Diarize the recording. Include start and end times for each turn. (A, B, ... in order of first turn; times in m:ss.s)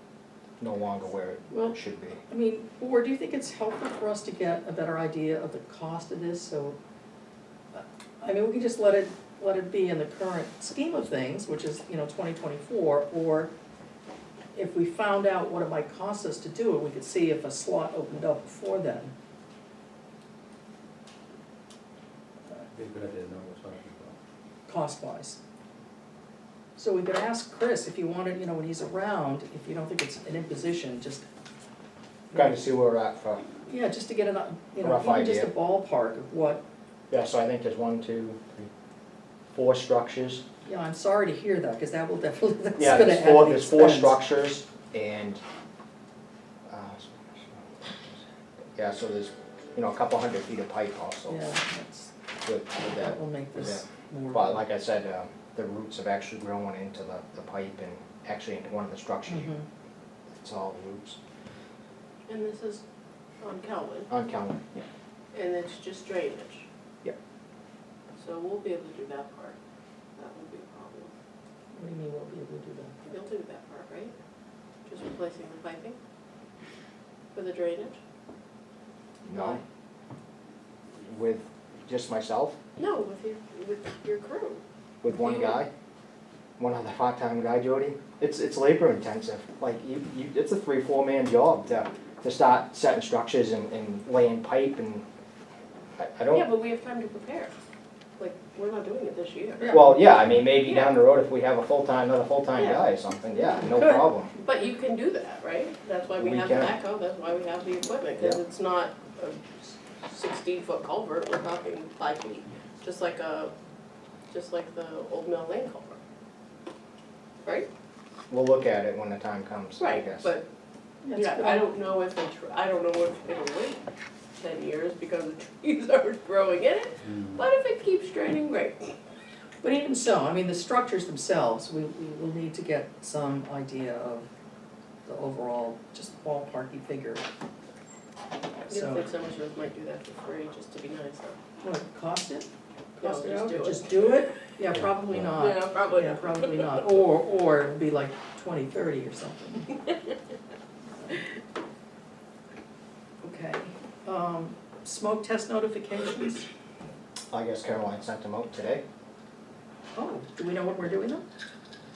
0:00.6-0:02.2 A
0:02.3-0:06.8 B
0:07.7-0:13.5 B
0:14.5-0:19.1 B
0:22.7-0:24.2 C
0:24.7-0:25.4 B
0:26.8-0:31.2 B
0:32.3-0:33.4 A
0:33.7-0:36.6 B
0:34.8-0:35.5 A
0:37.1-0:38.7 A
0:39.5-0:40.4 A
0:40.6-0:44.2 B
0:42.8-0:45.4 A
0:46.7-0:48.2 A
0:48.7-0:51.4 A
0:51.3-0:52.1 B
0:52.4-0:59.5 A
0:52.8-0:54.6 B
0:59.3-0:59.6 B
1:00.4-1:01.2 A
1:02.3-1:02.8 D
1:03.4-1:04.1 D
1:04.1-1:04.6 A
1:05.3-1:06.6 D
1:08.2-1:09.6 D
1:10.2-1:11.1 D
1:11.7-1:13.1 B
1:13.0-1:14.1 D
1:14.8-1:16.0 D
1:17.3-1:18.0 D
1:19.2-1:19.6 B
1:19.3-1:19.6 A
1:21.0-1:22.6 A
1:22.8-1:25.6 D
1:25.0-1:25.7 A
1:26.6-1:35.0 A
1:36.0-1:36.5 A
1:36.3-1:37.5 D
1:38.2-1:39.7 D
1:39.6-1:40.0 B
1:39.7-1:44.3 A
1:40.6-1:40.9 D
1:42.6-1:42.8 D
1:43.5-1:44.1 B
1:44.4-1:53.5 D
1:46.2-1:46.7 A
1:54.3-1:56.0 D
1:57.4-1:57.7 D
1:58.3-2:00.3 A
1:59.8-2:00.4 D
2:01.0-2:01.6 B
2:01.1-2:03.8 D
2:04.4-2:09.0 D
2:07.0-2:07.4 C
2:09.6-2:14.3 B
2:15.0-2:17.2 B
2:18.7-2:19.0 B
2:18.7-2:21.4 D
2:21.6-2:22.5 B
2:23.0-2:24.2 D
2:23.0-2:29.7 B
2:24.7-2:25.2 C
2:25.3-2:26.9 D
2:33.2-2:36.4 B
2:37.3-2:38.8 A
2:39.9-2:41.2 B